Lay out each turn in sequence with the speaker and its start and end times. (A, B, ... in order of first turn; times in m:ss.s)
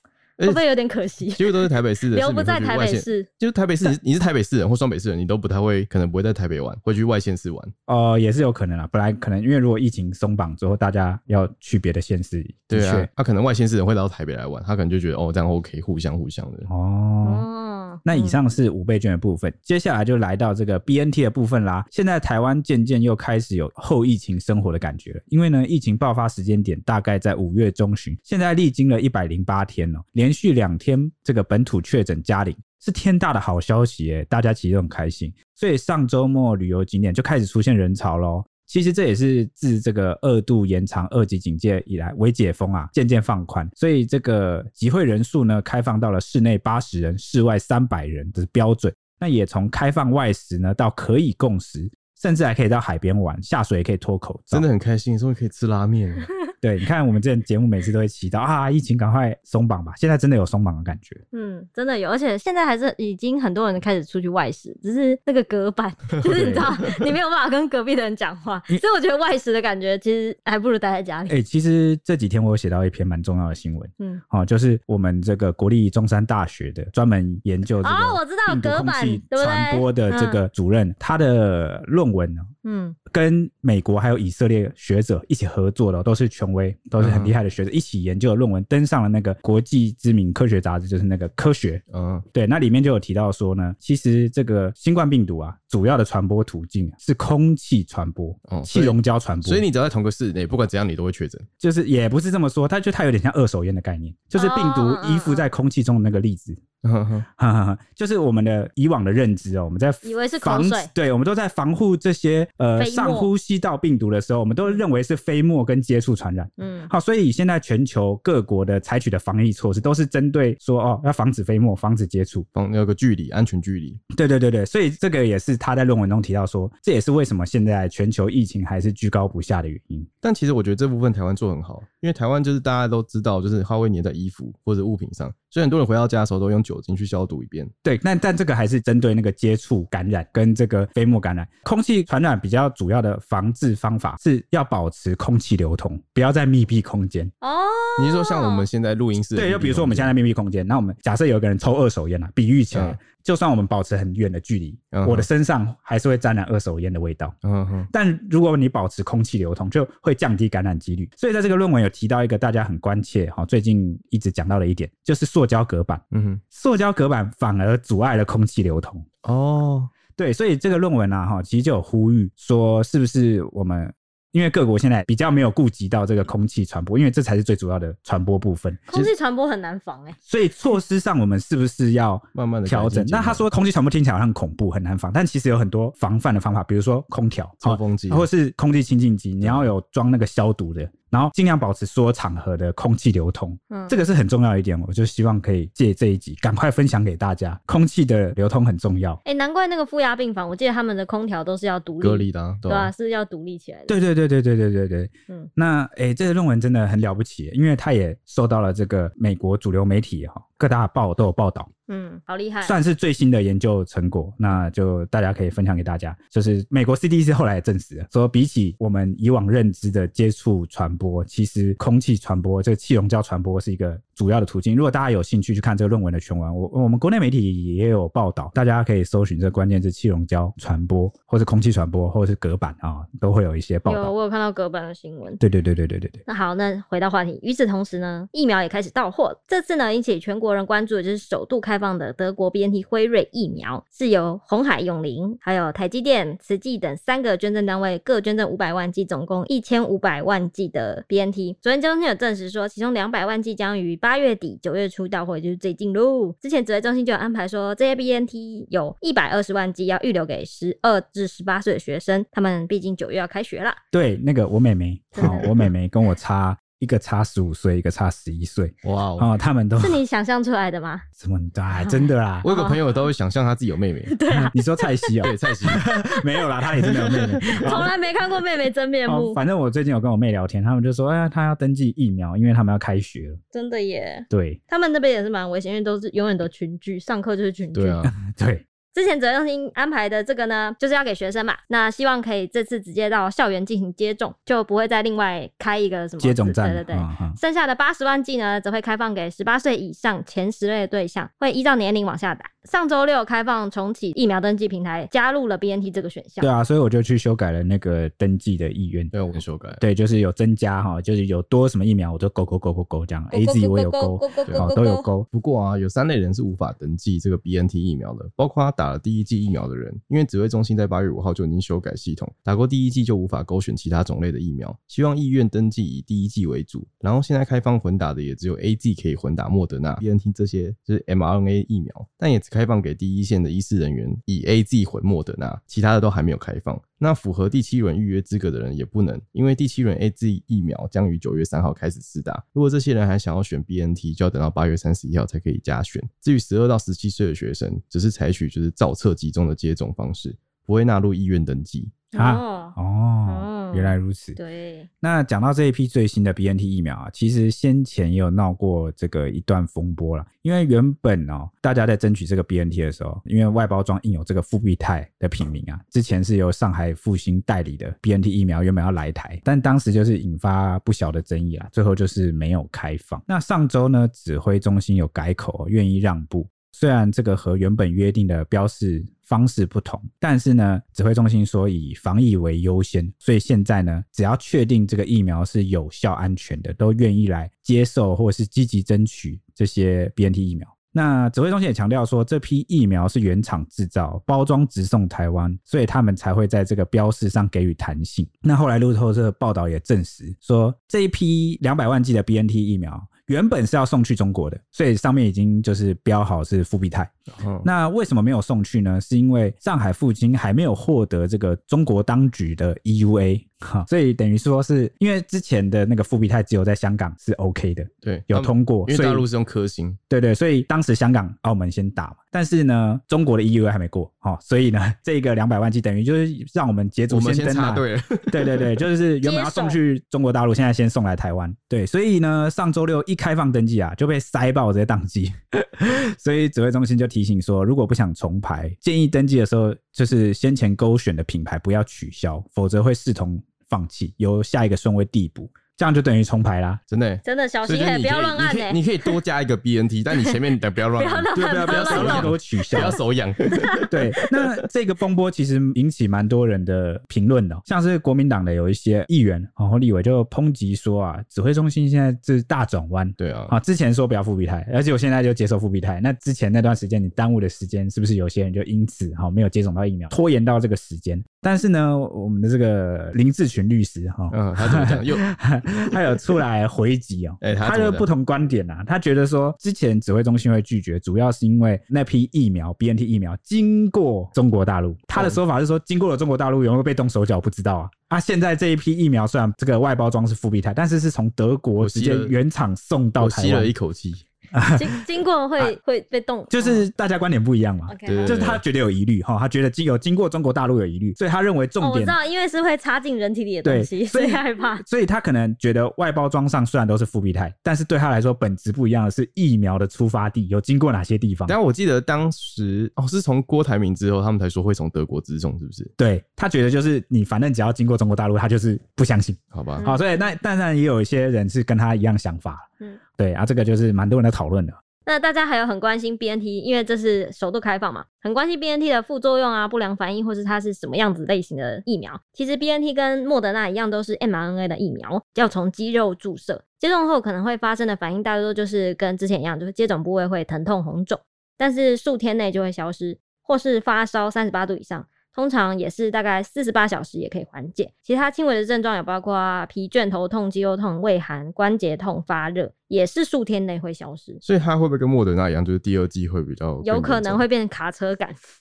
0:00.4-0:03.3 A
0:01.3-0:07.7 B
0:07.9-0:13.1 C
0:12.7-0:16.7 B
0:16.7-0:17.5 C
0:17.2-0:18.4 A
0:18.0-0:54.6 C
0:54.5-0:56.3 B
0:56.6-1:01.2 C
1:01.3-1:11.3 A
1:06.2-1:06.6 C
1:11.3-1:22.5 C
1:17.8-1:20.4 A
1:22.6-1:23.0 A
1:23.1-1:39.6 C
1:27.0-1:27.4 B
1:31.9-1:32.2 B
1:38.5-1:41.4 B
1:41.6-1:46.6 C
1:44.3-1:45.5 A
1:46.8-1:47.2 B
1:47.4-2:02.4 C
1:50.0-1:50.9 A
1:52.8-1:53.3 A
1:56.6-1:56.9 A
2:02.6-2:04.0 B
2:04.1-2:10.1 C
2:10.2-2:17.7 B
2:17.8-2:27.3 C
2:27.4-2:28.7 A
2:28.0-2:30.2 B
2:29.3-2:37.4 C
2:32.7-2:33.0 B
2:34.9-2:35.3 B
2:37.4-2:37.9 B
2:37.9-2:49.1 C
2:46.1-2:46.4 B
2:49.2-2:49.9 B
2:50.2-2:58.8 C
2:58.9-3:00.2 A
3:00.3-3:19.2 C
3:02.3-3:03.4 B
3:07.6-3:08.3 B
3:09.4-3:09.7 B
3:13.7-3:14.0 A
3:19.2-3:23.9 A
3:22.0-3:22.9 B
3:23.9-3:31.7 C
3:31.9-3:32.8 A
3:32.6-3:54.1 C
3:53.8-3:55.4 A
3:55.4-3:56.2 C
3:56.3-4:23.8 A
4:23.9-4:30.0 C
4:25.2-4:25.5 A
4:28.8-4:29.3 B
4:29.8-4:31.0 A
4:31.2-4:32.4 C
4:31.7-4:32.8 A
4:32.4-4:34.1 B
4:34.1-4:36.2 A
4:34.3-4:37.9 C
4:35.2-4:35.8 B
4:36.8-4:37.9 B
4:37.4-4:39.4 A
4:39.1-4:43.4 C
4:43.5-4:48.0 A
4:44.3-4:44.6 C
4:47.7-4:48.1 B
4:48.1-4:48.6 C
4:48.9-5:06.5 A
4:56.2-4:57.4 C
5:06.4-5:09.1 C
5:09.1-5:09.8 B
5:09.8-5:15.3 C
5:13.3-5:15.1 A
5:15.3-5:52.0 B
5:52.1-5:52.7 A
5:52.2-5:54.4 C
5:53.3-5:54.9 A
5:55.0-6:47.1 C
6:47.4-6:47.7 B
6:47.6-6:59.3 C
6:58.0-7:00.0 B
7:00.1-7:26.8 C
7:07.1-7:08.7 B
7:09.2-7:09.8 A
7:26.9-7:34.0 B
7:27.2-7:28.9 A
7:31.0-7:32.9 A
7:31.3-7:33.0 C
7:33.9-8:13.7 C
7:43.2-7:43.6 B
7:54.3-7:55.2 B
7:57.4-7:58.1 B
8:05.1-8:05.4 B
8:11.8-8:12.4 B
8:13.2-8:14.2 B
8:14.5-8:14.9 C
8:14.7-8:16.9 A
8:16.5-8:22.2 C
8:17.9-8:18.4 A
8:18.1-8:18.6 B
8:21.8-8:24.8 A
8:23.6-8:31.6 C
8:31.5-8:35.9 B
8:36.0-8:42.6 C
8:39.5-8:39.8 B
8:39.8-8:40.2 A
8:43.2-8:44.8 C
8:45.0-9:14.4 A
9:14.4-9:17.4 B
9:16.8-9:18.4 A